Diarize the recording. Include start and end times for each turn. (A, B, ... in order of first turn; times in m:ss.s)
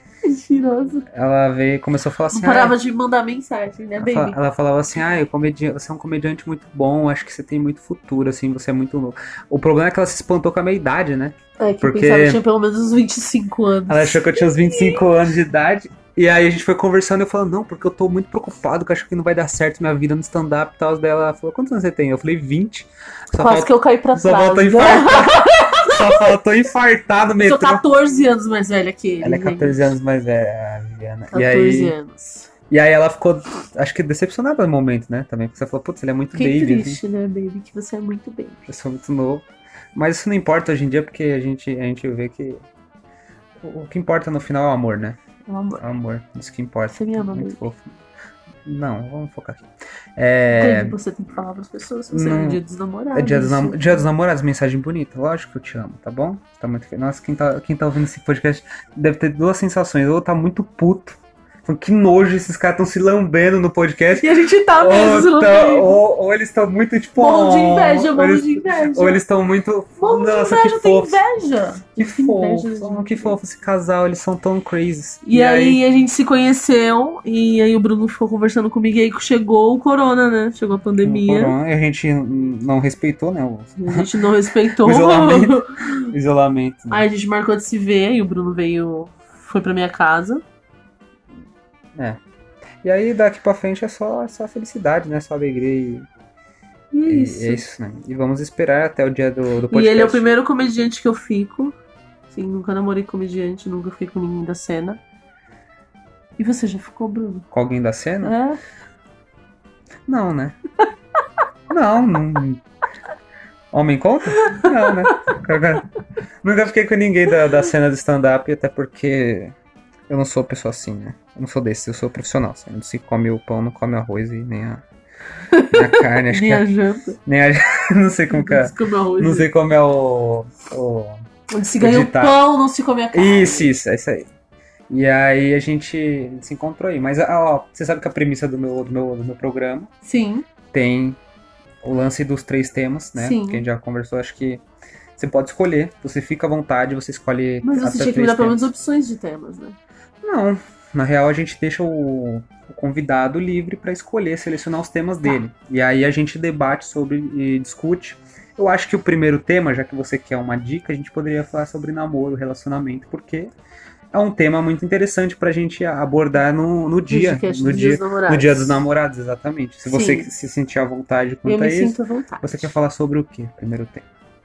0:00.2-0:01.1 A
0:01.1-0:02.8 B
0:02.3-0:04.4 A
0:04.0-0:12.4 B
0:11.6-0:15.1 A
0:13.9-0:27.8 B
0:23.4-0:26.3 A
0:27.4-0:30.0 A
0:29.2-0:32.0 B
0:31.3-0:32.5 A
0:32.7-0:37.0 B
0:36.4-0:38.7 A
0:38.7-0:42.6 B
0:43.6-0:45.2 B
0:45.5-0:45.8 A
0:45.8-0:48.0 B
0:46.9-0:47.6 A
0:48.6-0:51.0 B
0:50.5-0:54.0 A
0:52.1-0:52.6 B
0:53.1-1:11.2 B
1:04.2-1:06.0 A
1:07.2-1:09.2 A
1:10.0-1:13.4 A
1:12.0-1:15.8 B
1:15.2-1:21.6 A
1:21.0-1:24.1 B
1:23.8-1:26.1 A
1:24.7-1:27.0 B
1:26.9-1:30.4 A
1:32.0-1:32.2 B
1:32.8-1:36.1 B
1:36.9-1:37.6 A
1:37.1-1:40.3 B
1:39.7-1:41.8 A
1:42.3-1:45.0 A
1:46.4-1:47.5 A
1:47.5-1:48.4 B
1:48.2-1:48.6 A
1:50.1-1:50.6 B
1:51.7-1:52.6 B
1:53.7-1:55.9 B
1:54.4-1:55.2 A
1:56.4-1:59.6 B
2:00.1-2:04.8 B
2:05.5-2:07.2 A
2:05.7-2:06.7 B
2:07.2-2:12.4 B
2:08.3-2:09.5 A
2:11.5-2:13.7 A
2:13.1-2:14.3 B
2:14.9-2:19.9 B
2:20.0-2:20.5 A
2:20.7-2:21.2 B
2:21.8-2:24.6 B
2:23.2-2:23.6 A
2:25.2-2:28.6 B
2:27.6-2:29.8 A
2:30.2-2:43.5 B
2:44.1-2:54.1 B
2:47.1-2:48.9 A
2:49.9-2:50.3 A
2:51.4-2:52.7 A